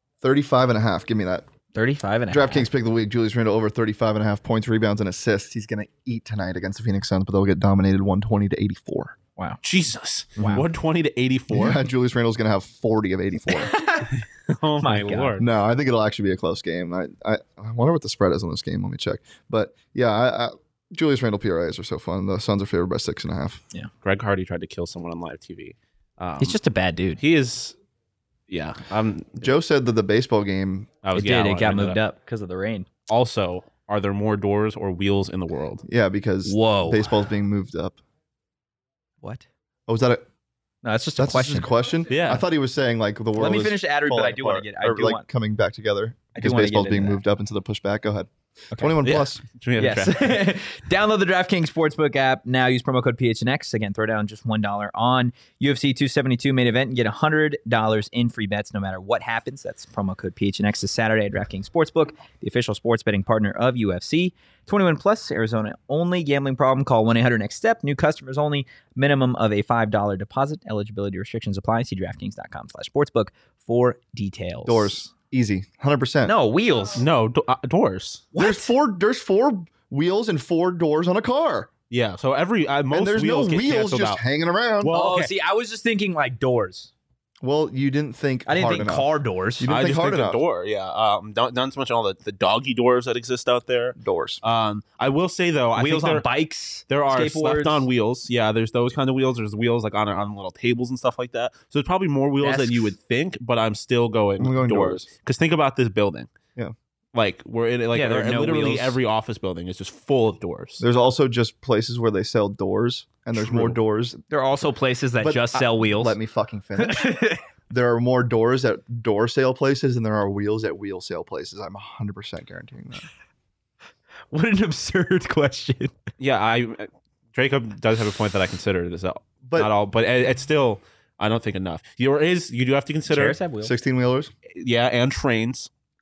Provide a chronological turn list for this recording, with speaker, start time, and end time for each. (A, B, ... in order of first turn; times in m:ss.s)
0:00.2-0:01.4 A
0:01.7-0:02.7 B
0:02.3-0:09.2 A
0:09.6-0:11.8 C
0:10.4-0:10.6 B
0:11.5-0:13.7 A
0:13.5-0:14.1 B
0:14.2-0:15.5 C
0:14.8-0:15.4 B
0:15.4-0:23.6 A
0:24.0-0:26.6 C
0:26.4-0:27.2 B
0:27.2-0:27.8 C
0:28.5-0:29.5 C
0:29.4-0:30.9 A
0:31.0-0:32.0 C
0:31.1-0:32.9 B
0:33.1-0:35.8 C
0:35.8-0:38.0 A
0:36.4-0:37.1 B
0:39.9-0:40.3 A
0:40.8-0:41.7 B
0:41.2-0:49.4 A
0:42.1-0:42.4 C
0:43.4-0:45.3 B
0:46.4-0:47.2 B
0:48.7-0:49.1 B
0:49.0-0:50.4 C
0:49.8-1:15.1 B
1:14.6-1:16.3 A
1:16.2-1:17.0 B
1:16.9-1:18.3 C
1:18.3-1:18.7 B
1:18.4-1:21.7 A
1:21.9-1:24.2 C
1:22.9-1:24.9 A
1:24.8-1:25.3 C
1:24.9-1:26.9 B
1:27.4-1:30.4 A
1:28.5-1:29.7 B
1:29.6-1:36.3 C
1:34.0-1:34.4 A
1:35.8-1:37.9 B
1:36.9-1:46.3 C
1:42.4-1:42.9 B
1:44.4-1:45.1 A
1:47.1-1:50.8 C
1:47.9-1:49.0 B
1:50.8-1:54.2 A
1:53.3-1:53.8 C
1:54.3-1:56.2 B
1:55.2-2:03.1 A
1:56.8-1:57.4 B
2:04.3-2:05.9 B
2:06.2-2:13.4 C
2:09.4-2:09.7 A
2:13.1-2:13.7 B
2:13.6-2:14.3 A
2:14.6-2:15.7 C